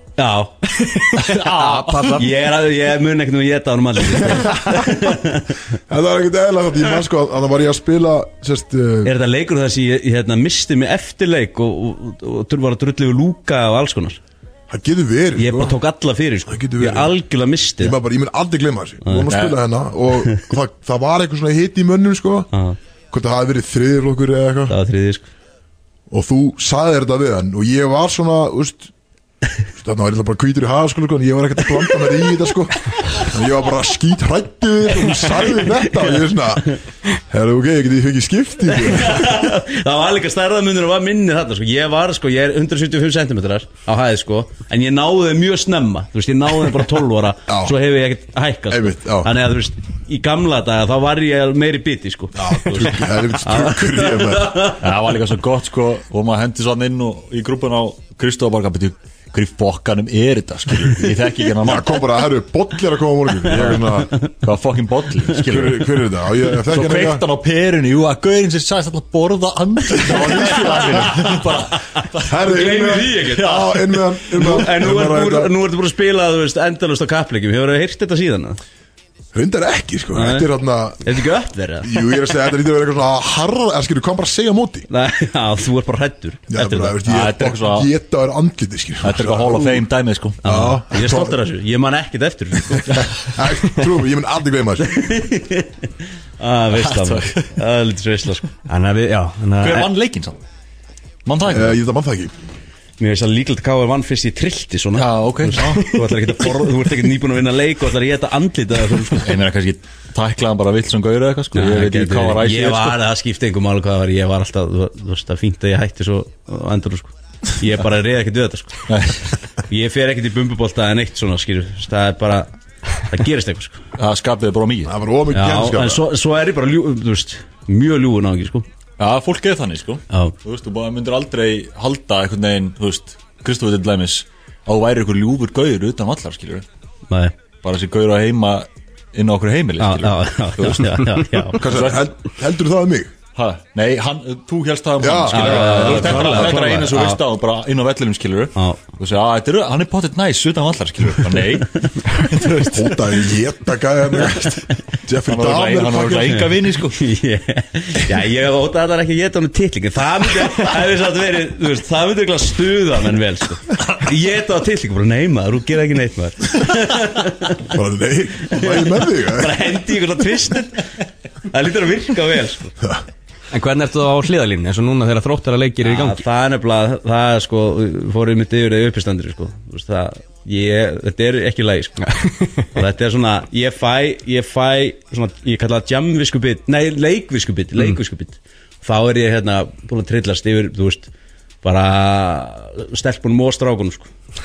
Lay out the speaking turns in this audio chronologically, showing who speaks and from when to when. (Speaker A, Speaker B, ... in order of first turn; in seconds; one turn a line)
Speaker A: 0.2-0.8
Speaker B: 1.1-2.2
Speaker C: 1.1-2.2
Speaker A: 2.1-5.6
Speaker D: 4.3-4.8
Speaker D: 5.9-9.1
Speaker A: 9.0-14.2
Speaker D: 14.7-15.8
Speaker A: 15.3-17.9
Speaker D: 16.5-17.1
Speaker D: 17.8-22.5
Speaker A: 19.1-19.3
Speaker C: 19.3-19.6
Speaker D: 23.1-24.8
Speaker A: 24.7-25.3
Speaker D: 26.1-28.9
Speaker D: 29.8-39.4
Speaker A: 38.8-54.8
Speaker D: 47.5-47.8
Speaker D: 48.7-49.3
Speaker D: 52.3-54.7
Speaker C: 54.8-62.0
Speaker D: 61.6-64.2
Speaker C: 63.5-63.8
Speaker C: 64.4-66.0
Speaker D: 65.4-67.2
Speaker C: 66.6-72.4
Speaker D: 69.9-71.3
Speaker A: 70.3-71.3
Speaker D: 72.2-75.5
Speaker A: 72.4-78.6
Speaker C: 73.3-73.8
Speaker D: 79.3-81.0
Speaker A: 80.1-80.5
Speaker A: 81.0-82.2
Speaker D: 81.8-84.9
Speaker A: 84.9-87.0
Speaker D: 86.5-89.8
Speaker C: 87.0-87.9
Speaker C: 89.0-90.4
Speaker D: 90.4-91.4
Speaker A: 90.4-93.1
Speaker D: 92.7-95.1
Speaker A: 94.8-95.7
Speaker A: 96.4-98.5
Speaker C: 96.7-97.5
Speaker B: 98.7-99.9
Speaker C: 99.6-100.4
Speaker C: 101.2-101.8
Speaker D: 101.5-102.3
Speaker A: 103.0-109.3
Speaker C: 104.9-105.9
Speaker C: 109.2-113.0
Speaker A: 111.5-118.9
Speaker C: 118.9-119.3
Speaker A: 119.7-123.8
Speaker C: 124.0-124.9
Speaker D: 124.8-126.0
Speaker A: 125.3-128.7
Speaker C: 129.0-136.7
Speaker A: 130.1-130.3
Speaker C: 137.6-142.1
Speaker A: 139.8-141.6
Speaker D: 141.6-143.1
Speaker C: 143.3-152.5
Speaker D: 145.0-146.4
Speaker A: 145.3-147.2
Speaker B: 146.0-146.8
Speaker A: 148.6-148.8
Speaker A: 152.2-152.6
Speaker D: 152.6-156.4
Speaker C: 155.3-157.0
Speaker A: 156.3-167.7
Speaker D: 167.7-169.6
Speaker A: 168.5-170.8
Speaker A: 171.5-172.7
Speaker B: 173.5-176.2
Speaker A: 175.8-182.1
Speaker B: 182.1-182.5
Speaker A: 182.6-191.1
Speaker A: 191.6-194.1